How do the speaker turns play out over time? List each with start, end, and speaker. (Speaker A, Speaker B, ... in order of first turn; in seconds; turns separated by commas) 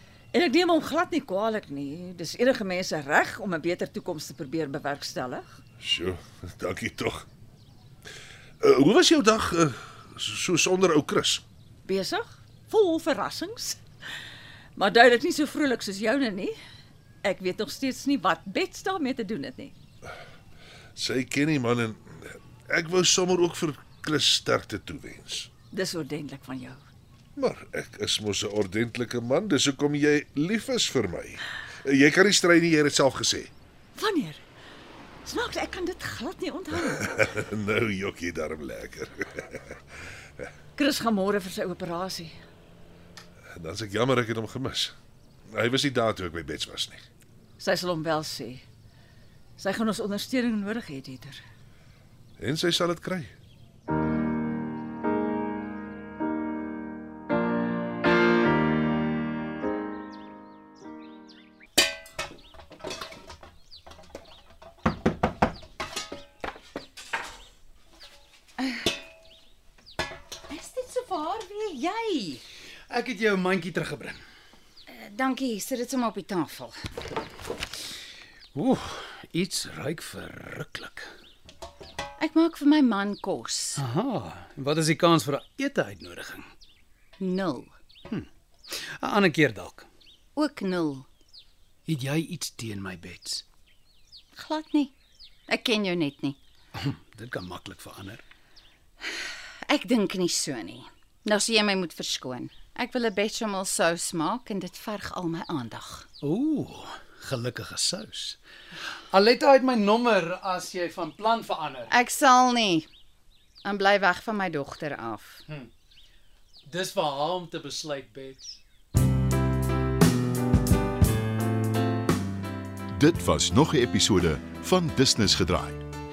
Speaker A: 0.3-5.6, Speaker B: 5.8-7.3, Speaker B: 8.6-11.4, Speaker A: 11.9-13.8, Speaker A: 14.8-16.6, Speaker A: 17.2-19.7, Speaker B: 21.0-25.5, Speaker A: 25.7-26.8, Speaker B: 27.4-33.5, Speaker A: 34.0-34.4, Speaker A: 35.2-37.2, Speaker B: 36.9-39.8, Speaker A: 40.8-42.4, Speaker B: 43.6-44.9, Speaker B: 45.5-47.0, Speaker A: 47.6-48.6, Speaker A: 49.6-51.4, Speaker B: 52.4-53.4, Speaker C: 68.6-68.9, Speaker C: 70.5-72.4, Speaker D: 72.9-74.2, Speaker C: 74.9-76.8, Speaker D: 78.5-81.1, Speaker C: 82.2-83.8, Speaker D: 83.8-86.5, Speaker C: 87.2-87.7, Speaker D: 88.1-89.9, Speaker C: 90.4-91.1, Speaker D: 91.9-93.4, Speaker C: 94.3-94.9, Speaker C: 95.5-96.4, Speaker D: 96.8-98.2, Speaker C: 99.7-106.1, Speaker D: 106.2-108.4, Speaker D: 109.1-111.9, Speaker C: 111.9-112.9, Speaker C: 113.7-115.4, Speaker D: 116.7-118.6, Speaker E: 122.9-125.8